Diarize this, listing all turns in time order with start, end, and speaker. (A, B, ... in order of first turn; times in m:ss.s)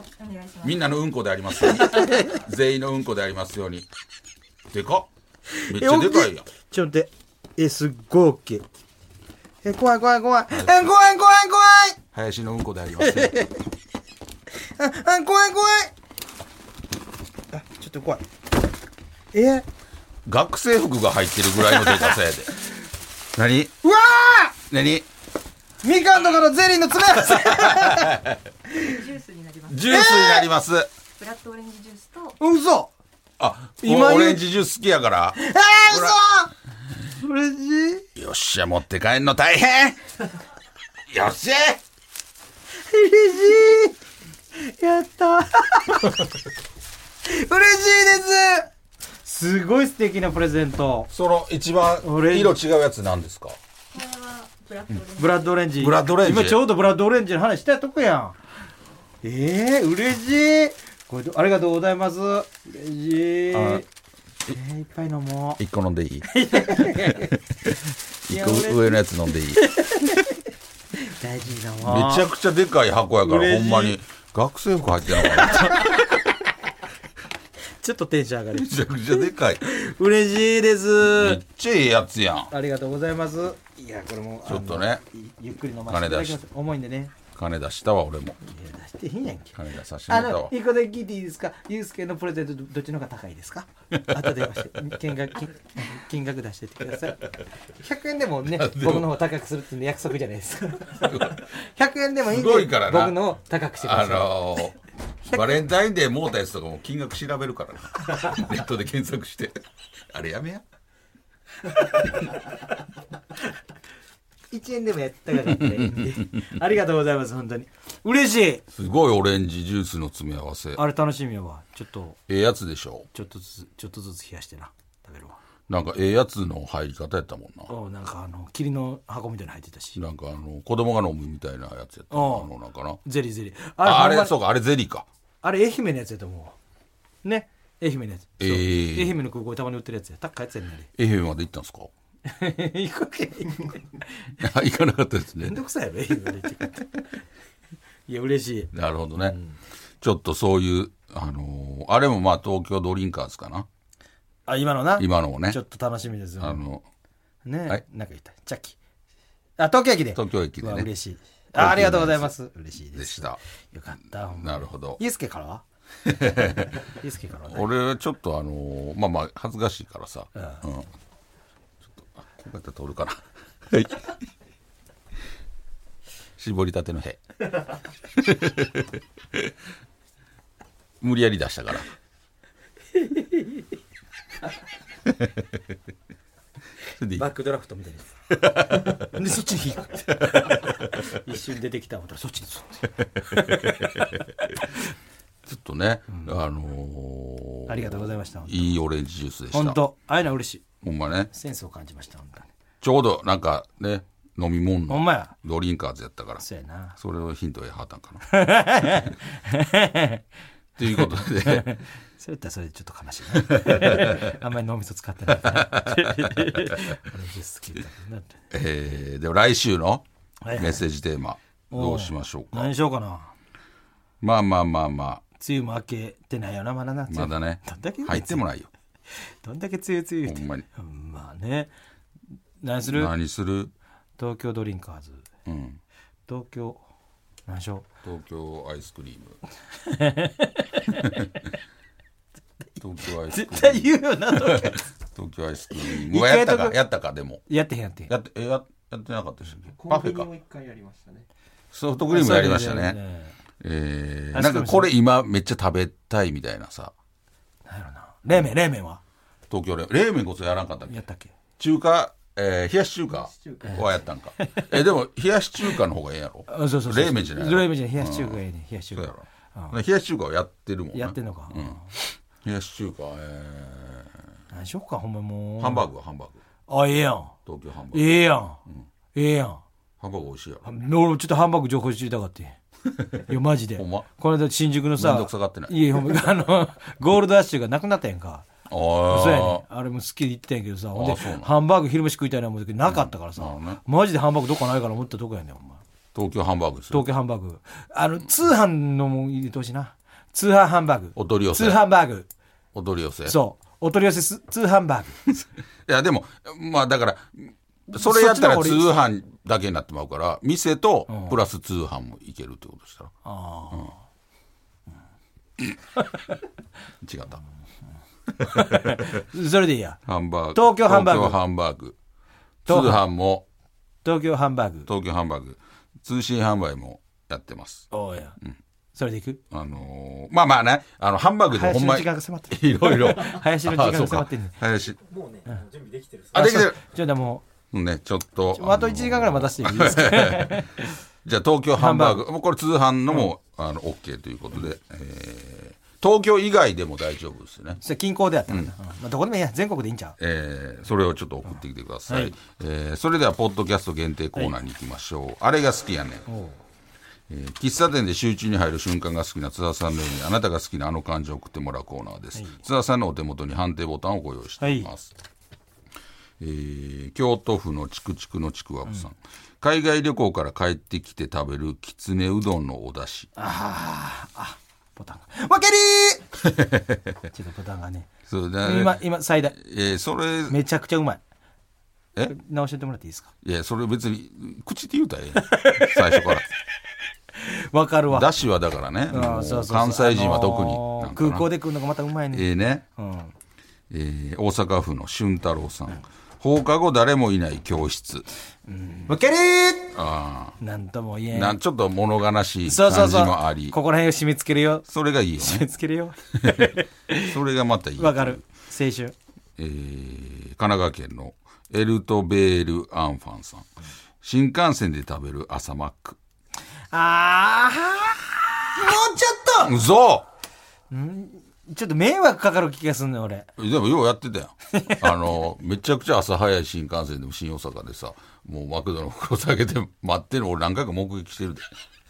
0:00.2-0:00.8 A
0:00.6-0:03.9 B
0:01.6-0:02.4 C
0:04.7-0:05.1 B
0:05.6-0:08.7 C
0:05.7-0:06.4 B
0:09.6-0:12.0 C
0:12.1-0:13.4 B
0:13.0-0:13.6 C
0:14.6-0:15.9 C
0:17.5-0:18.2 C
0:19.3-0:19.6 C
0:20.3-0:22.5 B
0:21.8-0:22.1 C
0:23.3-0:23.8 B
0:23.8-0:24.5 C
0:24.7-0:25.1 B
0:25.8-0:28.2 C
0:27.3-0:28.4 B
0:28.8-0:30.1 A
0:29.7-0:30.9 B
0:29.9-0:30.5 C
0:31.2-0:32.4 A
0:32.4-0:32.9 C
0:33.4-0:35.4 B
0:33.8-0:34.4 C
0:35.4-0:36.5 C
0:35.9-0:36.2 B
0:37.1-0:38.1 C
0:38.1-0:40.1 B
0:41.1-0:41.8 B
0:42.8-0:44.0 C
0:44.6-0:46.2 C
0:47.2-0:48.7 C
0:49.2-0:51.1 C
0:51.1-0:53.6 B
0:52.0-0:52.6 C
0:53.9-0:55.5 A
0:55.2-0:58.4 C
0:55.8-0:56.6 B
0:59.2-1:03.9 C
1:03.5-1:03.8 B
1:04.5-1:05.6 C
1:05.6-1:10.2 B
1:06.2-1:07.3 C
1:08.3-1:09.0 C
1:09.6-1:10.4 C
1:10.9-1:12.3 C
1:11.8-1:16.0 B
1:13.2-1:14.0 C
1:15.2-1:16.0 C
1:17.8-1:21.4 C
1:18.5-1:19.6 B
1:21.0-1:22.5 B
1:22.5-1:27.1 C
1:24.4-1:25.0 B
1:25.9-1:26.4 B
1:27.3-1:28.4 B
1:28.4-1:44.4 C
1:29.6-1:30.5 B
1:33.9-1:34.3 B
1:38.5-1:39.1 B
1:41.0-1:41.4 B
1:42.3-1:49.6 B
1:50.1-1:50.6 B
1:54.5-1:58.6 C
1:55.5-1:56.4 B
1:58.7-2:00.8 B
2:00.8-2:02.2 C
2:02.3-2:03.1 B
2:03.1-2:05.4 C
2:05.7-2:07.7 B
2:07.7-2:10.0 C
2:10.0-2:13.0 B
2:12.1-2:12.5 C
2:13.0-2:14.4 C
2:13.8-2:15.1 B
2:15.4-2:16.6 C
2:17.2-2:20.9 C
2:18.4-2:19.2 B
2:20.9-2:21.9 B
2:22.2-2:23.8 C
2:24.4-2:25.6 B
2:25.4-2:27.0 C
2:28.1-2:29.5 C
2:28.7-2:29.4 B
2:30.0-2:33.7 B
2:34.5-2:36.6 C
2:35.0-2:35.6 B
2:36.4-2:36.8 B
2:37.4-2:38.8 C
2:39.6-2:45.6 C
2:40.1-2:40.9 B
2:41.6-2:42.3 B
2:42.9-2:43.4 B
2:44.4-2:45.0 B
2:46.1-2:46.8 B
2:46.8-2:47.7 C
2:47.5-2:50.9 B
2:50.4-2:50.6 C
2:51.8-2:54.1 B
2:56.4-2:57.3 B
2:58.1-2:59.5 B
3:01.0-3:01.9 B
3:02.9-3:03.6 C
3:05.1-3:05.6 B
3:07.0-3:07.3 B
3:07.1-3:08.2 C
3:08.4-3:09.0 B
3:08.7-3:14.2 C
3:13.6-3:14.0 B
3:15.4-3:19.8 B
3:17.7-3:18.7 C
3:19.5-3:20.6 C
3:20.8-3:21.3 B
3:21.3-3:22.5 C
3:22.8-3:26.4 B
3:24.9-3:25.3 C
3:26.4-3:27.0 C
3:27.0-3:28.2 B
3:28.3-3:30.2 C
3:30.8-3:31.8 B
3:31.0-3:38.4 C
3:33.3-3:34.3 B
3:35.3-3:36.9 B
3:38.5-3:40.0 B
3:40.4-3:40.8 C
3:40.6-3:42.7 B
3:41.7-3:43.3 C
3:44.2-3:45.2 B
3:45.4-3:48.4 C
3:47.1-3:48.7 B
3:49.1-3:51.7 C
3:50.2-3:50.6 B
3:52.6-3:53.1 C
3:52.8-3:53.7 B
3:54.2-3:55.3 C
3:55.4-3:55.8 B
3:56.3-3:56.8 C
3:57.5-3:57.9 C
3:58.0-3:59.4 B
3:59.8-4:01.3 C
4:01.0-4:01.3 B
4:02.8-4:07.4 B
4:03.3-4:04.8 C
4:05.8-4:06.8 C
4:07.5-4:08.1 C
4:08.1-4:10.3 B
4:09.7-4:11.3 D
4:11.7-4:13.0 B
4:12.1-4:13.3 C
4:13.6-4:16.9 B
4:14.3-4:14.9 C
4:17.6-4:19.0 C
4:19.5-4:21.0 B
4:20.9-4:21.3 C
4:21.6-4:28.4 B
4:23.1-4:24.1 D
4:24.4-4:24.7 C
4:26.5-4:29.8 C
4:28.9-4:34.2 B
4:30.9-4:31.9 C
4:34.5-4:35.9 C
4:35.6-4:36.4 B
4:36.7-4:37.4 C
4:37.4-4:38.8 B
4:37.9-4:38.6 C
4:39.1-4:39.6 C
4:40.0-4:40.6 B
4:40.6-4:42.6 C
4:43.3-4:48.4 C
4:43.8-4:44.1 B
4:45.0-4:46.0 B
4:48.7-4:49.6 B
4:49.1-4:55.8 C
4:50.9-4:51.5 B
4:52.9-4:53.8 B
4:56.1-4:57.1 B
4:56.9-5:02.3 C
5:01.2-5:01.9 B
5:02.7-5:03.4 B
5:03.3-5:05.2 C
5:05.3-5:13.1 B
5:07.9-5:08.9 C
5:11.1-5:11.4 C
5:13.2-5:14.0 C
5:17.0-5:17.4 B
5:18.3-5:19.2 B
5:18.4-5:20.0 C
5:20.1-5:22.0 B
5:20.5-5:21.4 C
5:22.6-5:23.4 B
5:22.7-5:23.0 C
5:24.0-5:24.9 C
5:24.9-5:27.9 B
5:27.9-5:28.4 C
5:28.9-5:29.4 C
5:29.5-5:35.0 B
5:31.5-5:34.6 C
5:34.8-5:36.7 D
5:36.3-5:36.8 B
5:36.4-5:37.4 C
5:37.7-5:47.8 B
5:38.6-5:41.0 C
5:41.8-5:42.3 C
5:47.8-5:50.1 C
5:50.2-5:56.2 B
5:52.1-5:52.3 C
5:56.3-5:56.6 C
5:57.3-6:05.1 B
6:04.6-6:04.9 C
6:06.4-6:13.3 B
6:13.4-6:16.3 C
6:16.4-6:17.1 B
6:17.3-6:18.1 C
6:18.3-6:20.6 B
6:18.6-6:19.6 C
6:20.5-6:21.2 C
6:22.2-6:23.3 C
6:23.4-6:26.4 B
6:25.4-6:26.3 C
6:27.4-6:28.3 C
6:28.1-6:31.5 B
6:29.1-6:33.3 C
6:32.3-6:32.8 B
6:33.9-6:38.2 B
6:38.7-6:39.9 C
6:39.9-6:40.6 B
6:40.6-6:41.6 C
6:41.3-6:43.8 B
6:42.6-6:44.9 C
6:44.9-6:45.7 B
6:45.4-6:47.3 C
6:46.4-6:48.4 B
6:48.0-6:49.1 C
6:49.6-6:53.7 B
6:54.2-6:56.2 B
6:56.9-6:59.7 C
6:59.6-7:00.3 B
7:00.9-7:03.5 C
7:03.6-7:11.7 B
7:04.7-7:05.1 C